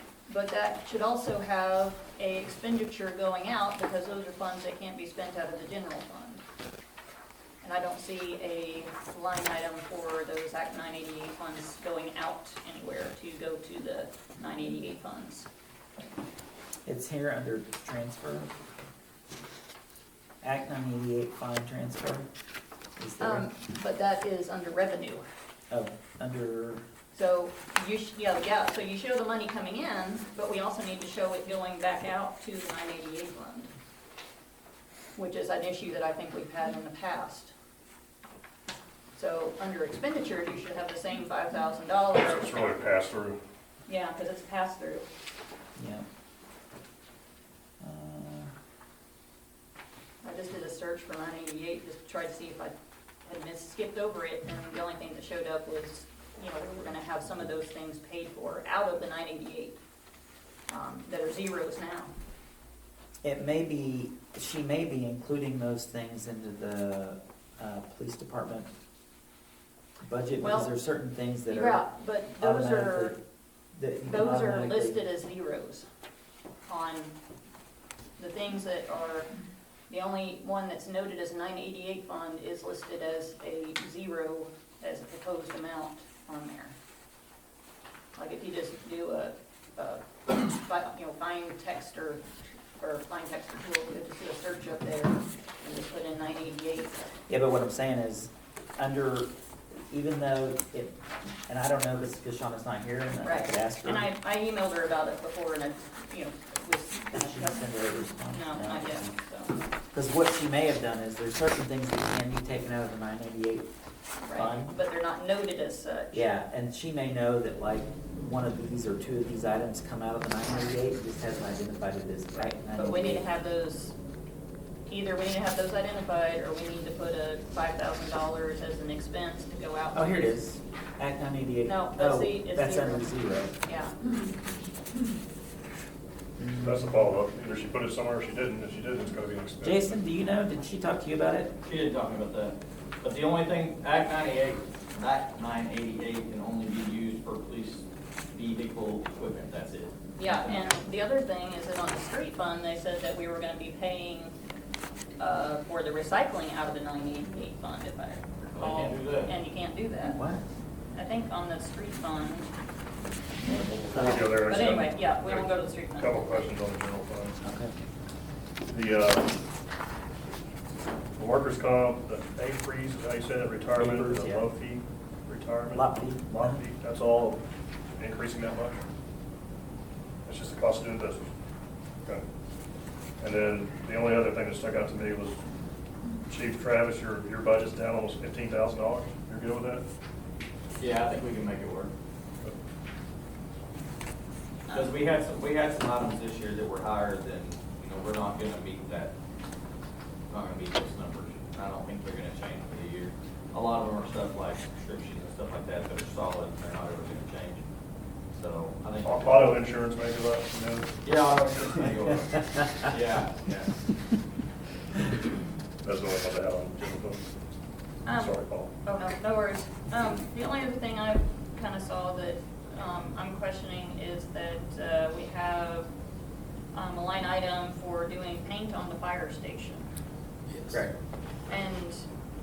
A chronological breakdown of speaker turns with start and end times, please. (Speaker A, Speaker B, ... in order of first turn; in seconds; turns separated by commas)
Speaker A: 0.3-6.4, Speaker A: 7.6-15.5, Speaker B: 16.9-18.5, Speaker B: 20.4-22.3, Speaker B: 23.0-23.4, Speaker A: 23.2-25.2, Speaker B: 25.7-26.8, Speaker A: 27.1-33.7, Speaker A: 35.2-37.5, Speaker A: 39.1-42.7, Speaker C: 42.2-43.4, Speaker A: 43.9-45.1, Speaker B: 45.8-46.0, Speaker B: 47.8-48.5, Speaker A: 50.2-59.8, Speaker A: 60.7-62.1, Speaker B: 63.2-68.7, Speaker B: 70.0-71.8, Speaker A: 70.4-70.7, Speaker A: 71.5-73.2, Speaker B: 72.4-73.2, Speaker B: 73.7-75.0, Speaker A: 74.1-75.9, Speaker A: 76.7-77.2, Speaker A: 78.2-79.3, Speaker A: 79.9-86.8, Speaker A: 88.2-92.3, Speaker A: 92.8-97.0, Speaker B: 97.3-99.3, Speaker B: 99.9-101.0, Speaker B: 101.5-104.1, Speaker A: 103.2-107.6, Speaker B: 107.1-109.1, Speaker A: 108.3-109.6, Speaker B: 109.9-113.7, Speaker A: 114.2-116.3, Speaker B: 114.3-114.8, Speaker B: 116.1-123.2, Speaker A: 122.4-124.0, Speaker A: 124.9-130.4, Speaker B: 129.9-133.6, Speaker A: 131.7-134.2, Speaker B: 136.4-137.1, Speaker C: 136.6-139.9, Speaker B: 139.6-141.5, Speaker D: 141.6-150.7, Speaker A: 150.2-154.4, Speaker A: 155.2-160.2, Speaker D: 158.5-159.3, Speaker B: 160.1-160.4, Speaker A: 160.9-162.5, Speaker B: 163.4-164.3, Speaker C: 163.9-167.4, Speaker A: 164.4-166.3, Speaker B: 167.4-167.8, Speaker C: 168.7-169.3, Speaker C: 171.2-177.4, Speaker B: 173.7-174.5, Speaker B: 175.7-176.6, Speaker C: 178.0-178.8, Speaker C: 180.2-181.2, Speaker C: 183.2-185.4, Speaker C: 186.2-189.8, Speaker D: 190.8-191.9, Speaker D: 194.7-199.1, Speaker D: 200.3-207.6, Speaker D: 208.3-209.6, Speaker C: 209.0-210.9, Speaker D: 211.0-213.7, Speaker C: 215.8-217.2, Speaker A: 218.1-225.9, Speaker C: 218.1-218.7, Speaker A: 226.7-229.9, Speaker D: 230.5-230.8, Speaker A: 231.5-232.1